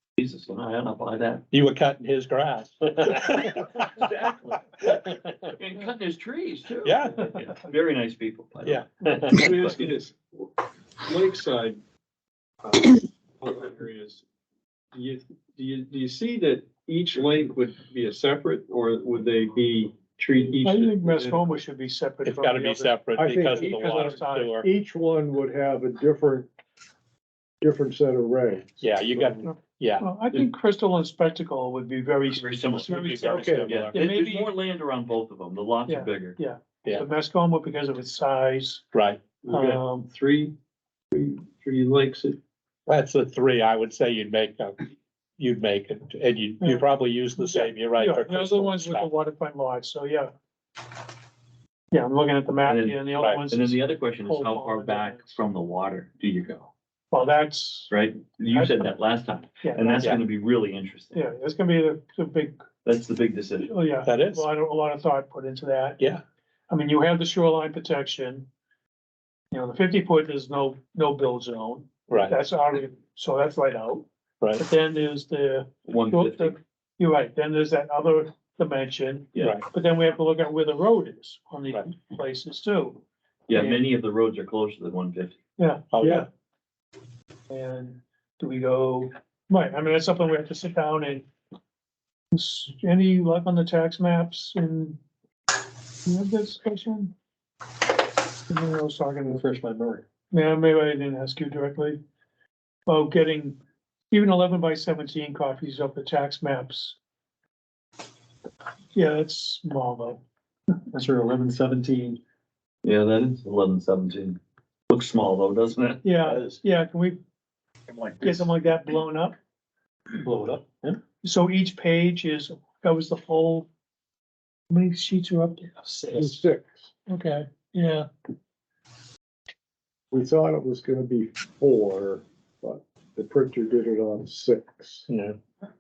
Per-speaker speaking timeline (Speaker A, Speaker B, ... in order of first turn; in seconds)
Speaker A: 0.2-1.4, 3.6-9.9, 32.3-36.4, 52.6-56.7, 57.9-61.2, 62.8-63.7, 75.8-76.6, 83.5-85.4, 112.8-114.4, 114.9-116.6, 117.9-118.3, 120.6-120.9, 125.8-126.1
Speaker B: 1.5-3.9, 6.8-7.3, 8.6-9.4, 22.2-24.6, 28.8-30.1, 32.8-34.0, 38.9-39.2, 42.9-44.9, 45.4-49.1, 53.2-53.4, 64.0-64.5, 72.1-72.3, 79.4-79.6, 85.9-86.3
Speaker C: 9.3-11.8, 12.6-14.2, 14.9-21.5, 39.4-40.5, 41.1-42.4, 99.3-100.0, 111.0-112.2
Speaker D: 20.6-24.6, 29.4-34.5, 35.9-38.8, 39.5-40.1, 46.6-50.3, 51.9-55.4, 57.1-57.9, 58.5-58.9, 59.6-60.2, 61.1-62.6, 63.6-66.0, 66.7-68.5, 69.5-74.0, 74.6-83.8, 85.6-86.3, 87.5-91.3, 92.3-95.0, 96.0-97.1, 98.5-99.4, 100.3-102.0, 102.9-103.6, 104.1-107.0, 108.9-110.2, 116.0-117.2, 118.2-119.3, 121.2-123.7, 124.7-125.8, 127.1-128.1
Speaker E: 23.1-26.5, 27.6-29.4, 126.1-126.9, 130.1-135.1